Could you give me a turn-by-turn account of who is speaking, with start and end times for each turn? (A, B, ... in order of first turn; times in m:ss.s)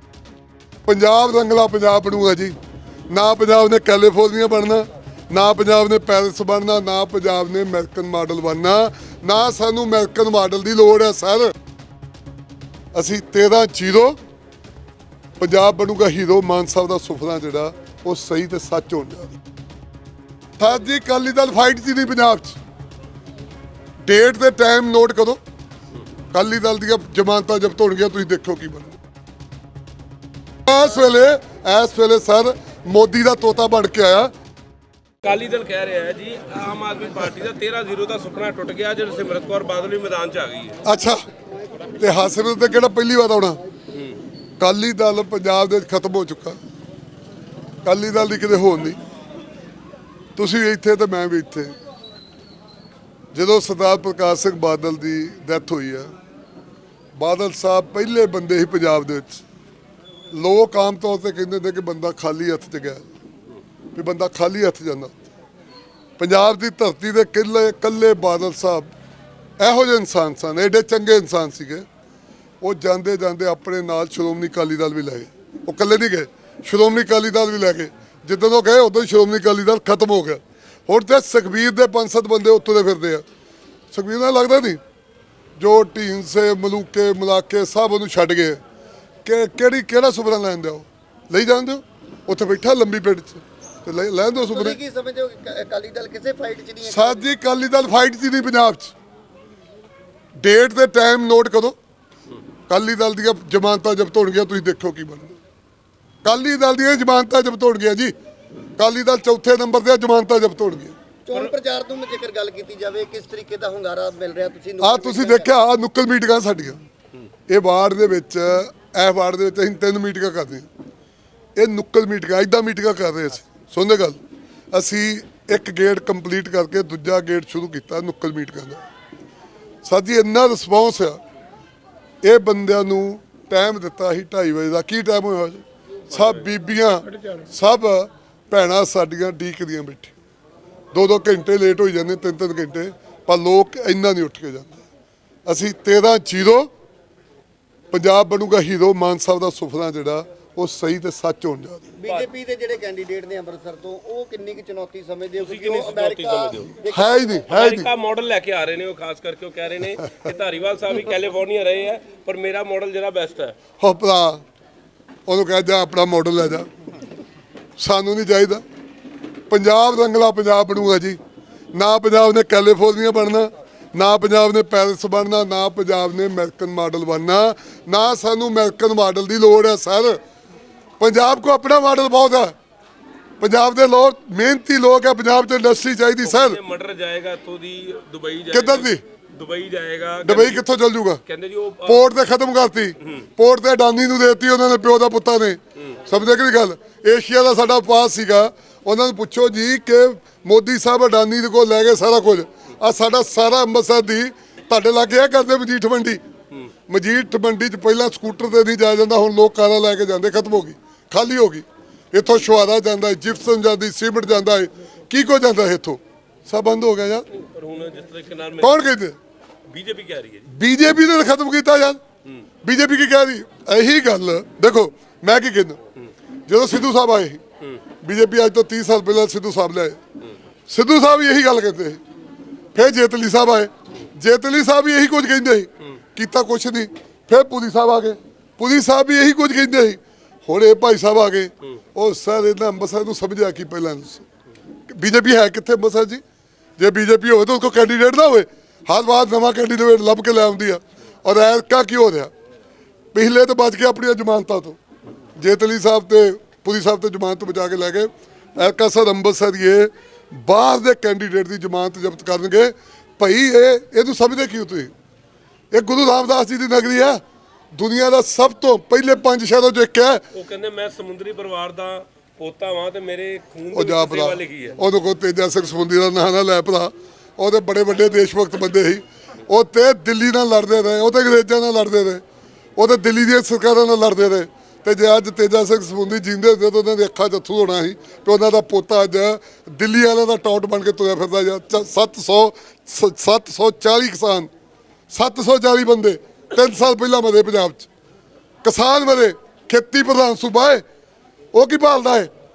0:00.9-0:02.6 A
0:03.1-0:11.6 A
0:12.9-0:14.2 A
0:15.4-0:19.3 A
0:20.6-0:22.6 A
0:24.0-0:25.4 A
0:26.3-0:29.0 A
0:30.7-0:34.3 A
0:35.2-0:40.8 B
0:40.8-0:41.2 A
0:42.0-0:43.6 A
0:44.6-0:46.6 A
0:47.8-0:49.0 A
0:50.4-0:51.8 A
0:53.3-0:56.1 A
0:57.2-0:59.4 A
1:00.3-1:03.1 A
1:04.0-1:05.2 A
1:06.2-1:08.9 A
1:09.6-1:11.9 A
1:12.6-1:23.2 A
1:23.9-1:24.8 A
1:25.6-1:28.6 A
1:29.2-1:34.8 A
1:34.4-1:37.3 C
1:36.8-1:39.0 A
1:40.4-1:41.8 A
1:42.7-1:45.4 A
1:46.2-1:48.1 A
1:48.8-1:51.0 A
1:51.3-1:55.5 C
1:54.8-1:56.8 A
1:57.5-2:00.7 A
2:01.6-2:04.2 A
2:04.7-2:08.8 A
2:09.8-2:11.2 A
2:12.2-2:20.2 A
2:16.1-2:16.5 B
2:20.9-2:24.8 A
2:25.5-2:26.7 A
2:27.9-2:32.0 A
2:32.0-2:37.4 C
2:35.4-2:36.8 B
2:36.9-2:37.9 A
2:37.5-2:43.6 B
2:43.8-2:44.4 A
2:45.3-2:46.7 A
2:47.8-2:48.6 A
2:49.5-2:51.2 A
2:51.8-3:00.2 A
3:01.0-3:02.6 A
3:03.4-3:06.6 A
3:06.2-3:10.7 B
3:08.5-3:09.0 A
3:10.2-3:11.2 A
3:11.3-3:12.1 B
3:11.8-3:26.2 A
3:26.9-3:37.2 A
3:37.3-3:38.8 B
3:38.6-3:39.2 A
3:39.7-3:40.5 B
3:40.5-3:42.0 A
3:42.6-3:45.8 A
3:46.5-3:47.4 A
3:48.0-3:50.0 A
3:50.7-3:52.0 A
3:52.8-4:04.2 A
4:04.9-4:06.2 A
4:06.8-4:12.3 A
4:13.1-4:14.8 A
4:15.4-4:24.9 A
4:25.7-4:27.2 A
4:27.7-4:30.2 A
4:30.3-4:34.8 B
4:33.7-4:42.2 A
4:42.8-4:54.5 A
4:55.1-4:57.9 A
4:58.6-5:00.8 A
5:01.5-5:02.3 A